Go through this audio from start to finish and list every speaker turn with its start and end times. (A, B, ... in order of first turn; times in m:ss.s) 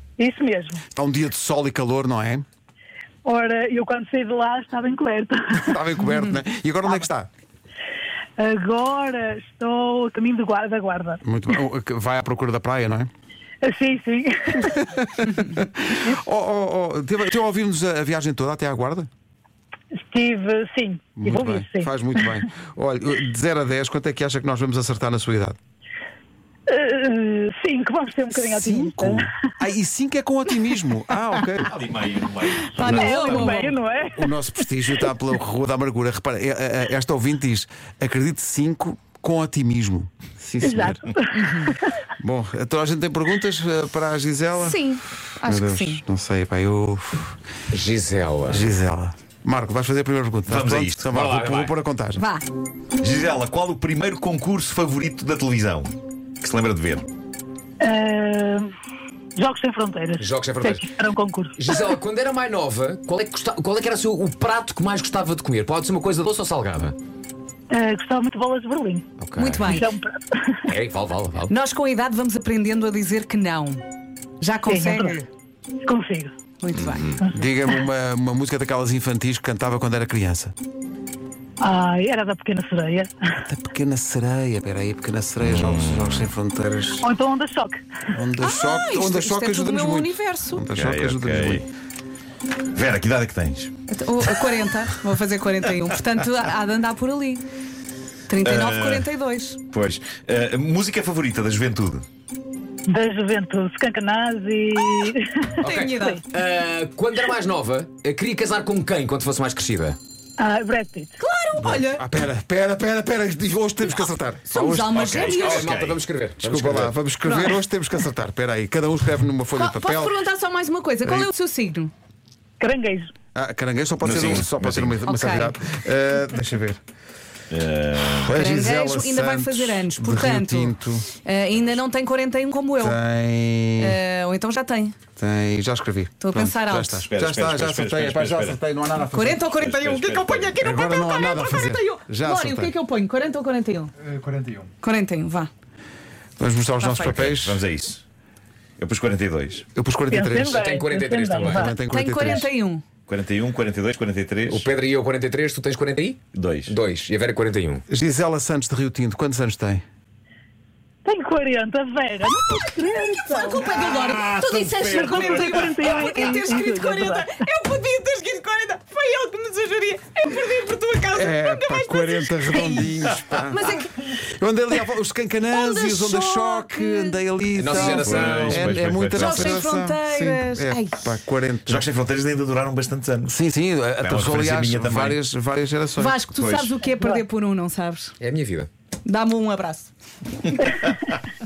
0:00.2-0:00.8 A
0:00.9-0:02.4 B
0:03.2-0:05.8 A
0:05.6-0:07.3 B
0:06.0-0:06.4 C
0:08.4-0:11.2 A
0:11.2-0:13.1 B
0:13.6-0:14.9 A
0:14.6-0:19.1 B
0:20.0-0:22.3 A
0:21.2-0:25.6 B
0:26.7-0:29.3 A
0:28.4-0:31.7 B
0:31.6-0:33.2 D
0:32.5-0:33.7 C
0:32.8-0:34.3 A
0:32.8-0:33.5 B
0:34.1-0:41.0 B
0:40.6-0:41.9 A
0:41.3-0:41.7 C
0:42.2-0:44.8 B
0:44.6-0:46.0 C
0:45.4-0:47.4 B
0:47.7-0:48.7 E
0:48.5-0:52.2 B
0:50.5-0:51.3 D
0:51.1-0:51.7 E
0:52.2-0:52.4 C
0:53.0-0:57.1 D
0:57.8-0:58.7 A
0:59.4-1:01.8 A
1:00.2-1:00.9 E
1:01.6-1:07.0 E
1:07.7-1:09.1 A
1:09.2-1:09.7 E
1:09.4-1:09.9 C
1:09.6-1:10.8 A
1:10.6-1:11.5 E
1:11.5-1:13.8 C
1:14.4-1:15.3 C
1:14.6-1:15.2 A
1:15.8-1:16.3 A
1:16.6-1:17.1 C
1:16.9-1:17.2 E
1:17.2-1:17.5 A
1:17.2-1:20.5 B
1:21.6-1:23.1 A
1:23.4-1:27.1 B
1:25.4-1:26.3 D
1:27.0-1:27.8 A
1:28.1-1:31.6 B
1:28.4-1:30.6 C
1:30.7-1:31.7 D
1:32.7-1:33.7 D
1:33.9-1:37.4 C
1:38.3-1:39.6 C
1:38.4-1:39.1 D
1:39.7-1:42.0 D
1:42.9-1:46.2 A
1:45.6-1:50.0 E
1:45.6-1:46.2 C
1:50.4-1:51.1 A
1:51.2-1:52.0 C
1:51.6-1:55.2 B
1:54.5-1:55.7 C
1:54.9-1:56.0 D
1:55.2-1:56.9 E
1:56.4-2:00.2 B
1:57.2-1:57.6 C
1:59.5-2:01.9 C
2:01.0-2:01.3 B
2:02.6-2:03.1 A
2:03.3-2:06.8 B
2:04.0-2:05.0 D
2:05.0-2:05.6 C
2:07.5-2:08.4 D
2:08.2-2:11.1 B
2:08.3-2:13.0 C
2:12.8-2:14.0 B
2:13.8-2:14.9 C
2:15.2-2:19.4 B
2:16.2-2:17.1 C
2:17.0-2:18.6 D
2:19.0-2:23.9 C
2:19.4-2:20.6 D
2:20.6-2:22.7 B
2:24.2-2:24.6 B
2:24.8-2:25.5 C
2:26.4-2:27.6 B
2:26.8-2:27.1 C
2:26.9-2:28.0 D
2:28.8-2:29.6 D
2:29.7-2:30.6 B
2:30.1-2:31.7 A
2:30.4-2:31.7 E
2:31.4-2:32.5 B
2:31.9-2:32.8 C
2:33.1-2:34.7 D
2:34.4-2:37.8 E
2:36.3-2:36.7 D
2:37.9-2:39.8 B
2:41.0-2:43.7 A
2:43.1-2:54.0 C
2:43.7-2:45.8 D
2:44.8-2:47.3 A
2:51.1-3:01.9 B
2:55.5-3:01.1 C
2:57.5-2:58.6 E
2:58.0-2:59.6 D
3:01.7-3:03.4 D
3:03.2-3:06.2 B
3:04.0-3:05.2 D
3:06.0-3:08.1 C
3:06.3-3:06.7 D
3:08.2-3:08.7 E
3:09.0-3:09.9 C
3:10.4-3:10.8 C